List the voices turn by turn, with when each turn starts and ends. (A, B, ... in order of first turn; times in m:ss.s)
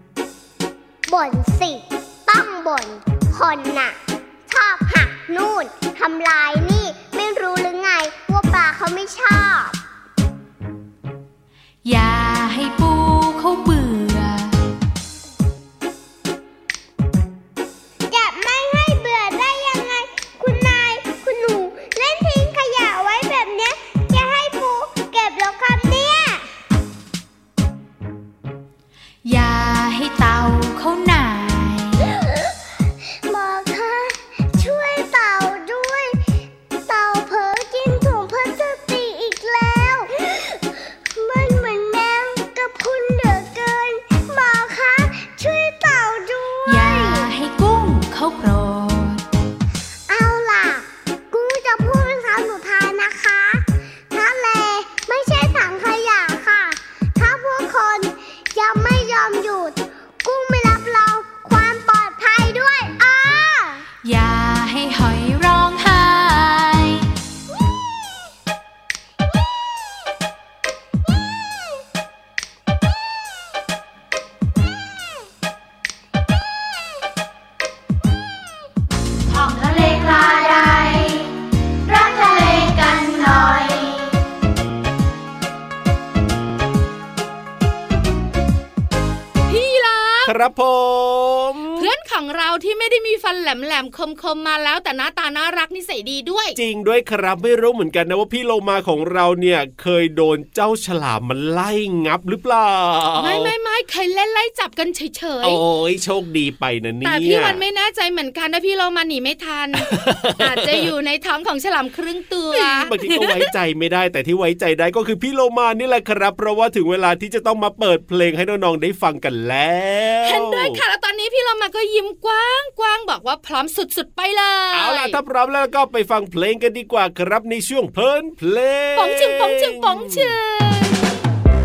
0:01.1-0:04.0 A
0:04.5-0:09.8 A
0:11.8-0:14.6 B
0:18.1-0:26.5 A
0:29.2-0:32.1 B
0:33.3-0:36.2 A
0:36.9-0:47.3 A
0:46.7-0:49.2 B
0:50.1-1:03.8 A
1:04.0-1:07.1 B
1:19.3-1:20.4 B
1:29.5-1:30.3 C
1:30.3-1:31.9 D
1:31.8-1:36.6 C
1:36.6-1:43.5 D
1:43.2-1:45.6 C
1:45.4-1:47.6 D
1:47.0-1:53.5 C
1:49.8-1:50.9 D
1:52.5-2:00.8 D
2:00.2-2:05.2 C
2:04.7-2:10.4 D
2:09.0-2:11.1 C